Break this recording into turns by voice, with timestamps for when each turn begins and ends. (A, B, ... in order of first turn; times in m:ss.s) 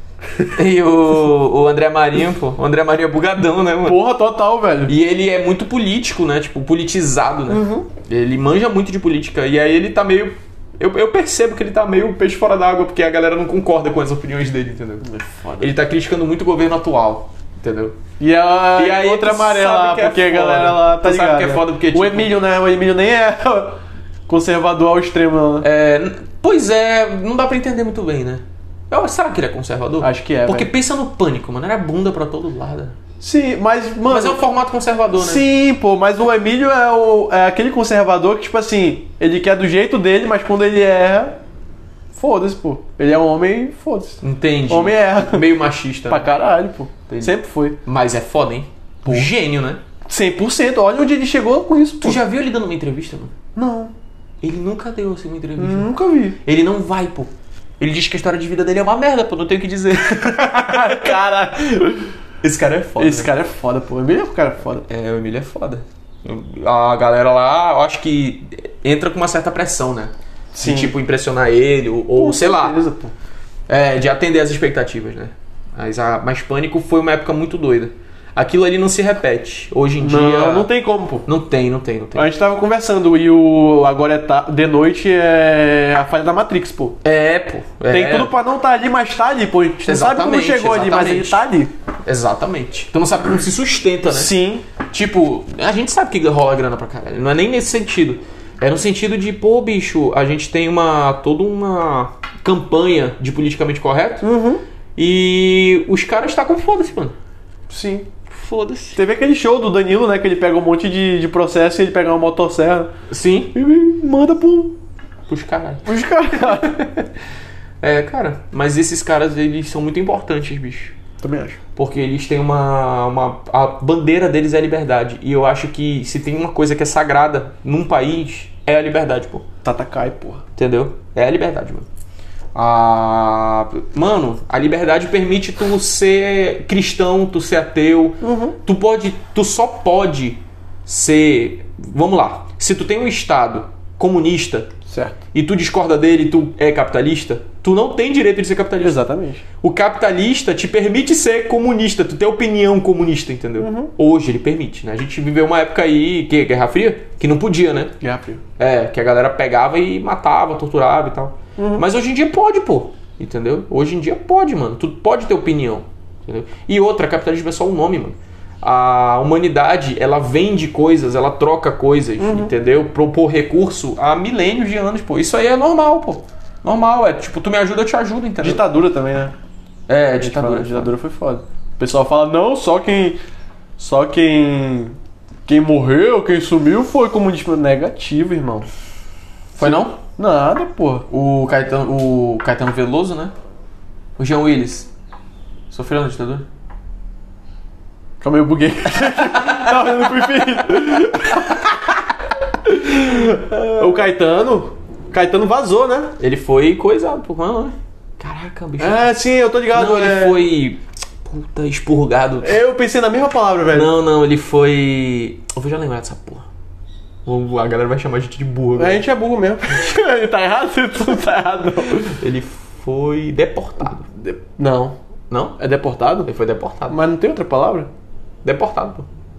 0:00.4-0:04.0 A
0:03.8-0:05.0 B
0:04.9-0:15.0 A
0:07.5-0:07.9 B
0:15.0-0:15.7 B
0:15.6-0:18.0 A
0:18.2-0:25.7 B
0:18.8-0:22.4 A
0:25.6-0:33.0 A
0:30.0-0:30.7 B
0:33.2-0:34.4 B
0:34.1-0:35.4 A
0:35.2-0:41.4 B
0:42.1-0:45.6 B
0:44.2-0:46.3 A
0:46.1-0:47.8 B
0:47.1-0:49.8 A
0:49.0-0:49.3 B
0:50.1-0:52.2 B
0:52.0-0:53.3 A
0:53.6-0:53.9 B
0:54.4-0:55.9 A
0:55.6-0:56.4 B
0:56.4-1:01.2 A
1:00.2-1:02.1 B
1:02.4-1:03.3 A
1:03.0-1:04.9 B
1:04.9-1:12.8 A
1:10.5-1:11.0 B
1:12.1-1:13.1 B
1:13.7-1:20.7 A
1:20.0-1:21.3 B
1:21.2-1:22.3 A
1:22.2-1:27.0 B
1:27.0-1:28.3 A
1:27.9-1:31.7 B
1:29.8-1:31.4 A
1:32.0-1:34.3 A
1:34.1-1:34.6 B
1:34.9-1:44.3 A
1:44.2-1:44.6 B
1:45.0-1:47.2 A
1:47.7-1:48.1 B
1:48.3-1:49.0 A
1:49.0-1:52.9 B
1:53.1-1:53.6 A
1:53.5-1:54.8 B
1:55.3-1:55.9 A
1:55.9-1:57.0 B
1:57.8-2:01.0 A
2:01.2-2:01.6 B
2:01.8-2:09.4 A
2:09.6-2:10.4 B
2:10.6-2:11.9 A
2:12.6-2:24.7 A
2:18.2-2:18.6 B
2:24.9-2:25.2 B
2:25.3-2:29.0 A
2:28.8-2:29.4 B
2:29.6-2:37.9 A
2:33.6-2:33.9 B
2:38.0-2:38.4 B
2:38.6-2:58.6 A
2:41.6-2:41.8 B
2:52.2-2:52.5 B
2:58.4-2:59.3 B
2:59.9-3:00.9 A
3:00.2-3:03.2 B
3:03.8-3:08.7 B
3:09.6-3:10.0 A
3:09.6-3:11.1 B
3:11.1-3:13.3 A
3:14.2-3:14.9 A
3:15.7-3:16.5 A
3:18.2-3:22.0 B
3:22.6-3:26.2 B
3:23.5-3:23.8 A
3:26.2-3:29.1 A
3:28.8-3:30.5 B
3:29.7-3:32.6 A
3:32.4-3:33.9 B
3:33.7-3:36.5 A
3:37.3-3:39.0 A
3:38.8-3:42.2 B
3:42.2-3:44.1 A
3:44.0-3:45.0 B
3:45.3-3:45.6 A
3:45.6-3:46.3 B
3:46.2-3:47.0 A
3:46.9-3:47.9 B
3:48.4-3:49.1 A